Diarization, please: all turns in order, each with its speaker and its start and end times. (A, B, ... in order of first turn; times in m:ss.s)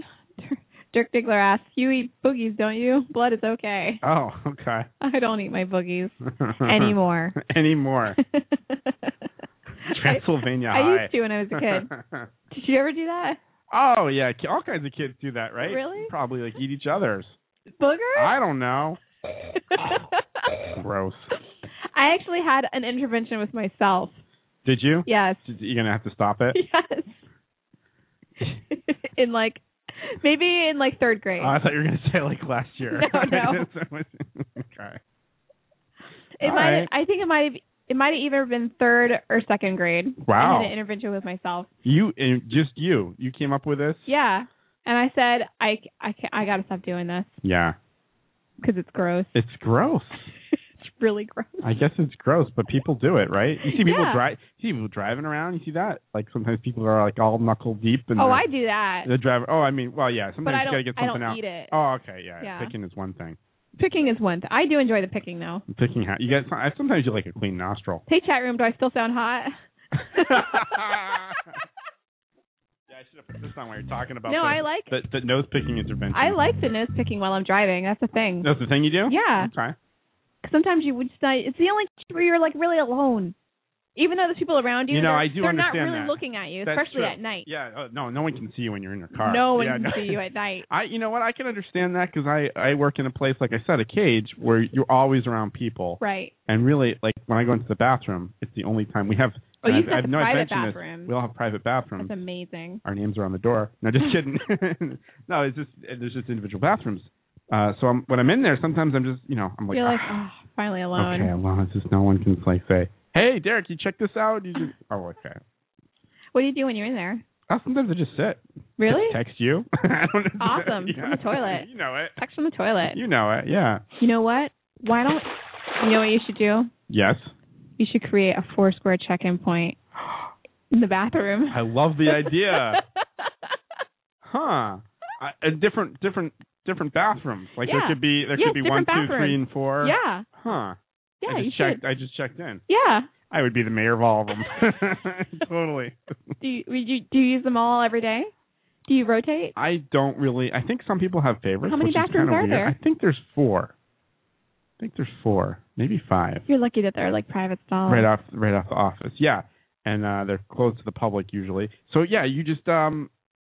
0:00.4-0:04.0 A
0:04.0-0:04.9 B
0:05.0-0:07.4 A
0:06.4-0:08.2 B
0:08.2-0:09.1 A
0:09.8-0:11.9 A
0:09.9-0:12.3 B
0:12.5-0:13.4 A
0:13.7-0:17.4 B
0:15.6-0:16.1 A
0:17.8-0:18.3 A
0:18.1-0:19.0 B
0:19.7-0:20.1 A
0:20.7-0:21.3 B
0:21.9-0:24.2 A
0:24.6-0:26.6 B
0:25.0-0:25.4 A
0:26.5-0:27.2 A
0:28.4-0:31.5 A
0:31.4-0:35.0 B
0:32.9-0:33.7 A
0:36.4-0:41.7 A
0:36.4-0:36.9 B
0:40.2-0:40.7 B
0:41.8-0:44.1 B
0:44.1-0:47.4 A
0:47.4-0:47.8 B
0:48.6-0:49.3 A
0:49.3-0:50.3 B
0:50.8-0:51.7 A
0:51.6-0:58.4 B
0:53.6-0:54.2 A
0:58.2-0:59.1 A
0:59.0-1:03.4 B
1:00.4-1:01.7 A
1:02.4-1:02.7 A
1:03.8-1:05.6 A
1:05.7-1:08.0 B
1:08.1-1:09.6 A
1:10.1-1:11.2 A
1:10.1-1:11.5 B
1:12.9-1:16.4 B
1:14.2-1:14.9 A
1:16.1-1:18.5 A
1:18.4-1:19.8 B
1:19.1-1:19.5 A
1:20.4-1:23.3 A
1:24.0-1:27.5 A
1:24.9-1:42.2 B
1:29.2-1:30.7 A
1:36.0-1:36.3 A
1:39.6-1:41.1 A
1:42.0-1:42.8 A
1:42.8-1:50.2 B
1:49.7-1:51.3 A
1:51.0-1:55.4 B
1:56.3-1:57.2 A
1:57.5-2:02.2 B
1:58.8-1:59.2 A
2:00.4-2:03.0 A
2:02.9-2:03.8 B
2:04.0-2:06.7 A
2:06.9-2:07.3 B
2:07.8-2:09.8 A
2:10.7-2:12.8 A
2:11.5-2:12.8 B
2:14.2-2:22.6 B
2:17.6-2:20.2 A
2:21.2-2:21.8 A
2:22.7-2:23.1 A
2:23.3-2:26.1 B
2:26.4-2:28.3 A
2:28.9-2:29.5 A
2:29.6-2:33.7 B
2:31.6-2:32.7 A
2:34.8-2:36.4 B
2:36.5-2:38.1 A
2:37.9-2:43.1 B